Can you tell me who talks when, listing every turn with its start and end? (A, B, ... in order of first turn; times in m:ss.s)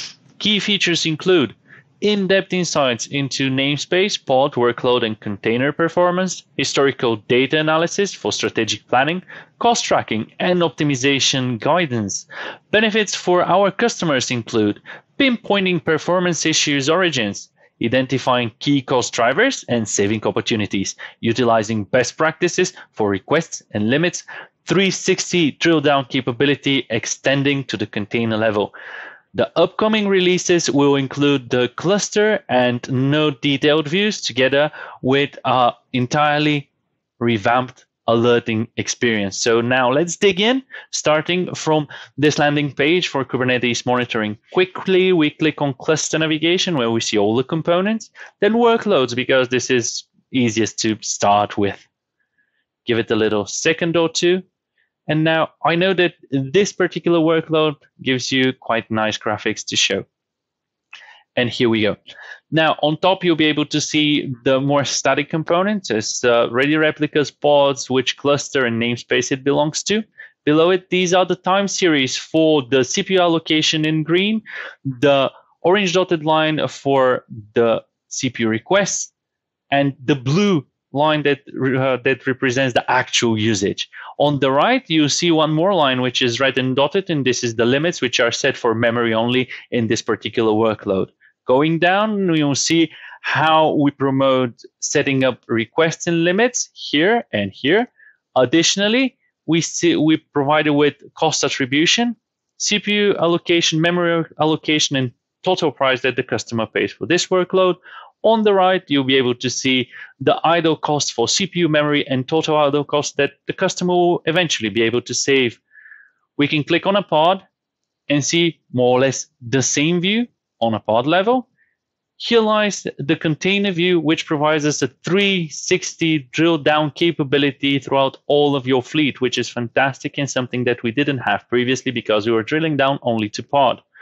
0:00.4-0:28.7 A
0:29.3-0:36.7 A
0:37.2-0:51.8 A
0:52.8-0:54.4 A
0:55.1-1:00.0 A
1:01.4-1:02.0 A
1:02.5-1:19.1 A
1:19.7-1:55.6 A
1:56.4-1:57.4 A
1:58.1-2:01.5 A
2:02.2-2:13.8 A